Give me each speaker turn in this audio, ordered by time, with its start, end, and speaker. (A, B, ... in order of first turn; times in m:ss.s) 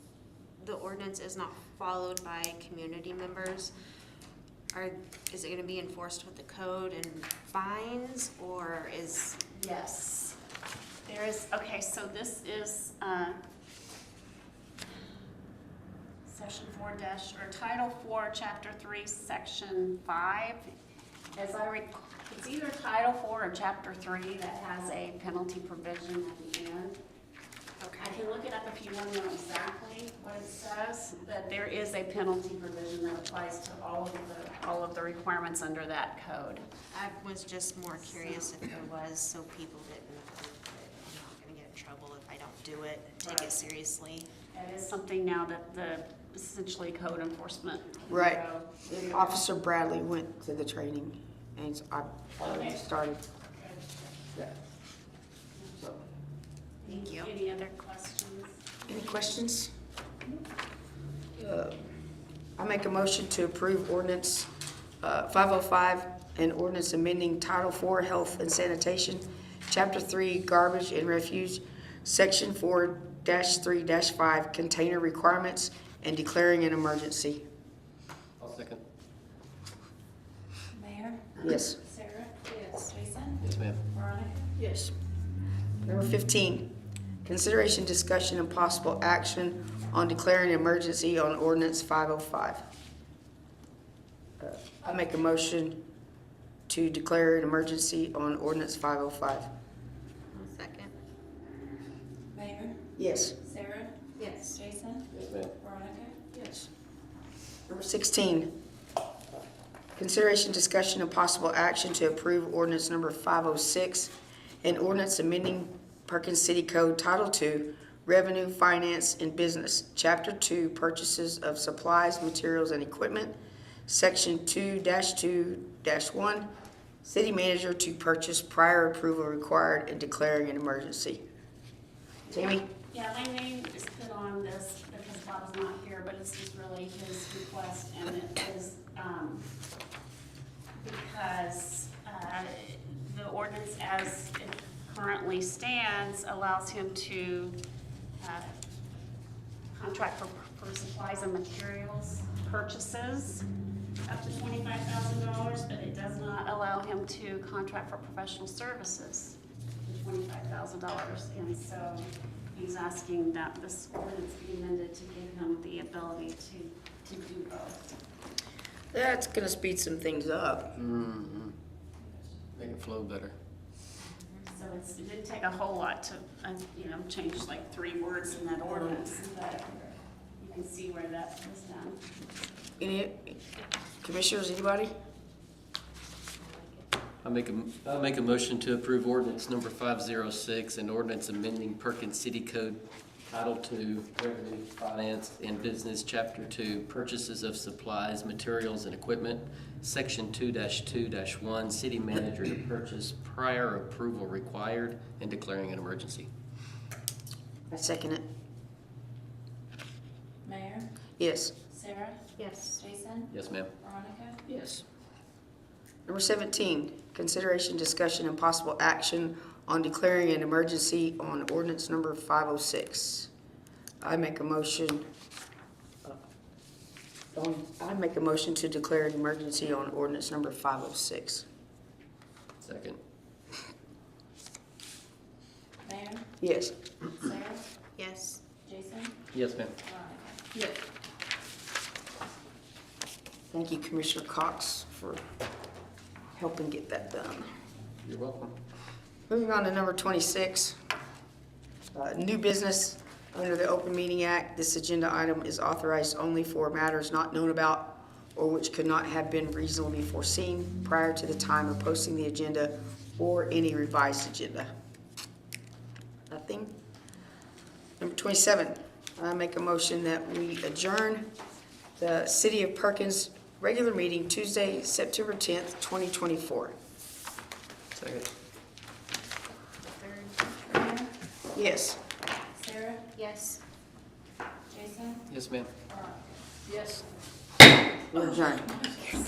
0:00.6-0:03.8 A
0:04.7-0:09.4 A
0:09.5-0:10.4 B
0:11.0-0:13.4 B
0:16.3-0:20.6 B
0:21.4-0:27.0 B
0:27.8-0:28.2 A
0:28.0-0:36.7 B
0:36.9-0:44.3 A
0:38.0-0:38.5 B
0:43.2-0:43.6 B
0:44.5-0:49.4 B
0:48.1-0:53.2 C
0:52.4-0:52.8 B
0:53.5-0:54.1 B
0:56.8-0:57.3 A
0:56.8-0:58.7 B
0:58.9-0:59.7 C
1:01.4-1:01.8 C
1:02.6-1:04.5 C
1:05.0-1:17.4 C
1:18.4-1:18.8 D
1:20.7-1:21.3 E
1:21.4-1:21.8 C
1:21.9-1:23.4 E
1:23.4-1:23.8 D
1:23.9-1:24.5 E
1:24.6-1:24.9 C
1:25.8-1:26.7 C
1:27.2-1:32.6 C
1:34.4-1:35.8 C
1:36.7-1:39.5 C
1:40.3-1:40.9 A
1:42.3-1:42.8 E
1:43.0-1:43.4 C
1:43.4-1:43.9 E
1:44.2-1:44.6 A
1:44.5-1:45.0 E
1:45.1-1:45.5 D
1:45.6-1:46.3 E
1:46.3-1:46.7 C
1:47.7-1:48.5 C
1:50.0-2:03.3 C
2:03.9-2:06.5 C
2:07.0-2:11.2 C
2:12.3-2:12.6 C
2:12.4-2:19.4 B
2:20.8-2:27.6 B
2:28.2-2:28.5 B
2:29.7-2:33.4 B
2:34.0-2:47.8 B
2:48.9-2:50.8 C
2:50.8-2:51.5 D
2:52.6-2:53.3 D
2:54.5-3:02.0 B
3:02.8-3:03.4 C
3:04.0-3:04.9 C
3:06.4-3:06.8 A
3:07.2-3:26.3 D
3:27.7-3:28.2 C
3:30.4-3:30.9 E
3:31.2-3:31.6 C
3:31.7-3:32.2 E
3:32.4-3:32.8 A
3:32.8-3:33.3 E
3:33.3-3:33.7 D
3:33.8-3:34.4 E
3:34.5-3:34.8 C
3:36.1-3:43.3 C
3:44.0-3:45.1 C
3:47.3-3:51.4 C
3:52.6-3:53.0 D
3:55.8-3:56.2 E
3:56.4-3:56.7 C
3:57.2-3:57.6 E
3:58.0-3:58.4 A
3:58.7-3:59.1 E
3:59.3-3:59.7 D
3:59.9-4:00.3 E
4:03.5-4:05.2 C
4:06.4-4:07.5 C
4:08.0-4:08.5 D
4:09.3-4:10.8 C
4:11.9-4:24.7 C
4:26.3-4:26.7 C
4:28.0-4:31.3 C
4:32.0-4:36.7 C
4:38.0-4:38.3 D
4:39.9-4:40.8 A
4:40.8-4:41.1 E
4:41.5-4:42.0 C
4:42.6-4:43.1 E
4:43.1-4:43.6 A
4:44.7-4:45.2 E
4:45.3-4:45.7 D
4:48.1-4:49.0 C